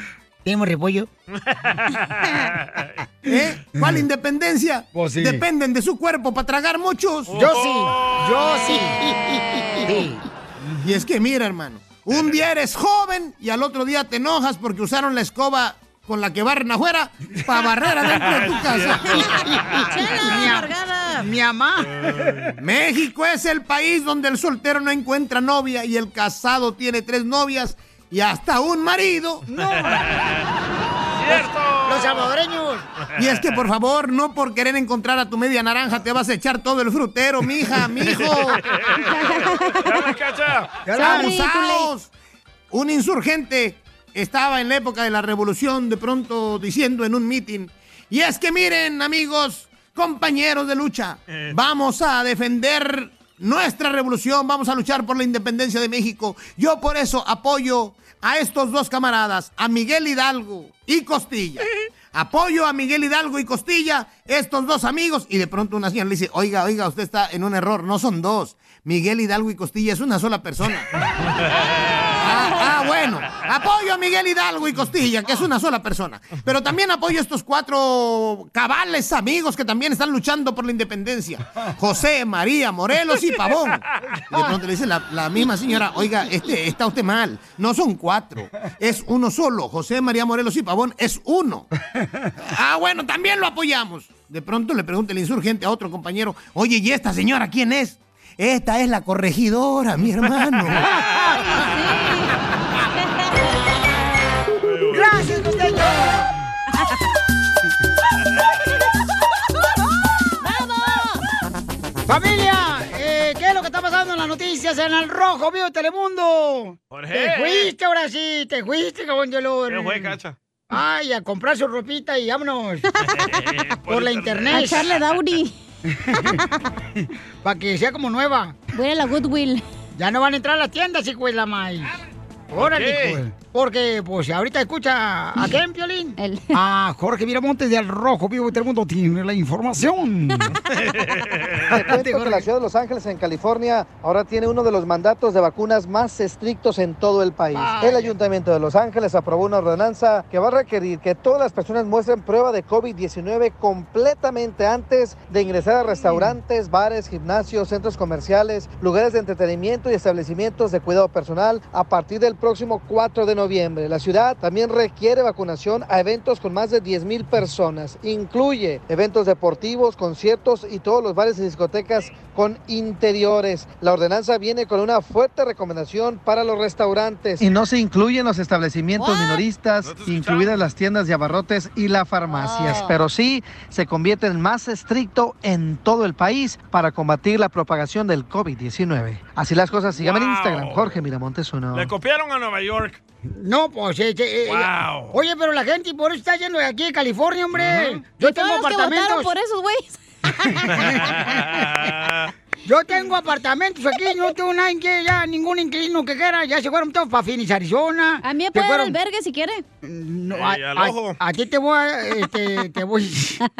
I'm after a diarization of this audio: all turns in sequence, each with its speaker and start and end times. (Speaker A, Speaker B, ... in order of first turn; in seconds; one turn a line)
Speaker A: 0.4-1.1
Speaker B: 1.3-2.9
Speaker C: 3.2-7.4
Speaker A: 4.9-5.4
Speaker B: 7.3-8.7
Speaker A: 7.3-9.1
Speaker D: 9.4-9.8
Speaker A: 9.8-10.2
Speaker C: 10.8-19.4
Speaker B: 18.3-19.9
Speaker D: 19.8-21.2
Speaker A: 20.2-22.5
Speaker B: 22.1-22.4
Speaker C: 22.6-29.4
Speaker A: 29.5-30.1
Speaker B: 29.6-30.4
Speaker B: 31.2-32.3
Speaker A: 31.3-32.8
Speaker C: 33.2-38.6
Speaker B: 38.0-40.8
Speaker D: 39.2-40.0
Speaker A: 40.8-41.4
Speaker D: 40.9-41.9
Speaker C: 41.0-42.1
Speaker C: 42.7-70.9
Speaker C: 72.2-91.7
Speaker C: 92.5-100.8
Speaker D: 101.3-102.3
Speaker D: 103.0-103.5
Speaker B: 104.6-105.3
Speaker A: 104.9-106.3
Speaker D: 110.4-111.2
Speaker A: 112.1-120.1
Speaker B: 116.9-117.7
Speaker B: 119.7-120.3
Speaker A: 120.7-122.9
Speaker B: 123.1-125.1
Speaker A: 123.9-124.8
Speaker D: 124.5-125.5
Speaker A: 125.9-126.4
Speaker A: 127.0-128.6
Speaker D: 128.7-129.6
Speaker A: 129.9-131.9
Speaker A: 132.5-140.5
Speaker B: 132.5-133.2
Speaker D: 136.2-136.6
Speaker B: 140.7-141.7
Speaker E: 141.7-191.9
Speaker A: 141.7-142.4
Speaker A: 147.5-148.1
Speaker D: 179.0-179.4
Speaker B: 179.8-180.7
Speaker D: 182.4-182.9
Speaker B: 189.9-191.0
Speaker B: 191.7-193.0
Speaker A: 193.2-199.3
Speaker B: 194.5-195.1
Speaker B: 197.6-197.9
Speaker D: 198.2-200.6
Speaker A: 200.5-201.6
Speaker B: 201.0-202.3
Speaker A: 202.6-208.9
Speaker D: 208.2-209.6
Speaker A: 209.8-213.4
Speaker B: 210.3-211.2